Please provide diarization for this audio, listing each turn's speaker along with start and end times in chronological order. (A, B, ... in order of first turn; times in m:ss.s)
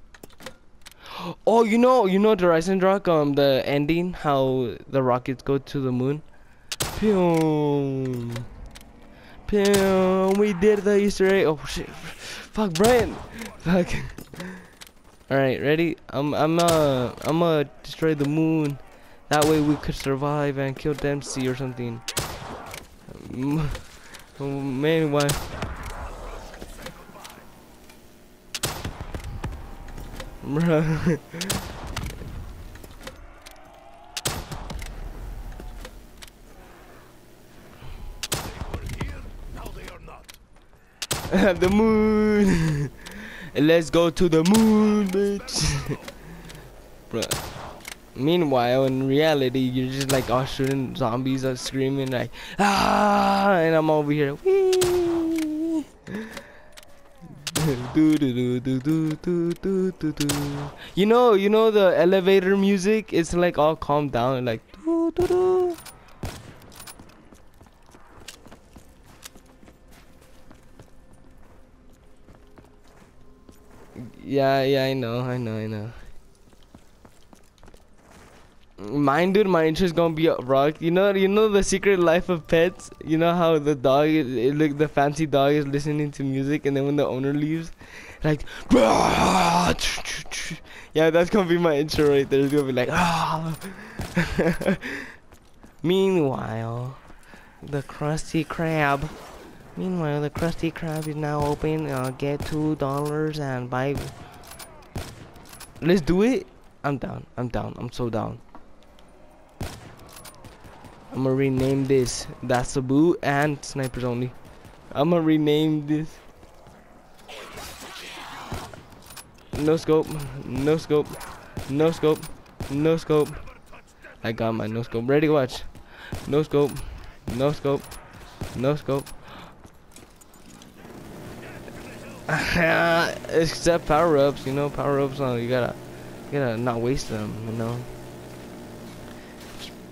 0:01.2-0:06.2 A
0:07.0-0:08.4 A
0:09.5-0:14.7 A
0:15.3-0:22.0 A
0:23.1-0:25.5 A
0:26.0-0:27.5 B
0:30.4-0:31.6 A
0:38.3-0:40.4 B
0:41.3-0:46.0 A
0:44.7-0:46.2 B
0:47.1-0:47.4 A
0:48.2-0:55.8 A
0:57.5-1:05.8 A
1:14.0-1:16.0 A
1:18.8-1:35.1 A
1:35.8-1:37.0 A
1:37.6-1:39.2 A
1:39.8-1:44.2 A
1:45.8-1:48.4 A
1:51.1-1:56.2 A
1:58.1-1:58.7 B
1:59.5-2:03.5 A
2:03.4-2:05.4 B
2:04.2-2:08.0 A
2:08.5-2:09.5 A
2:11.4-2:12.4 B
2:12.3-2:17.9 A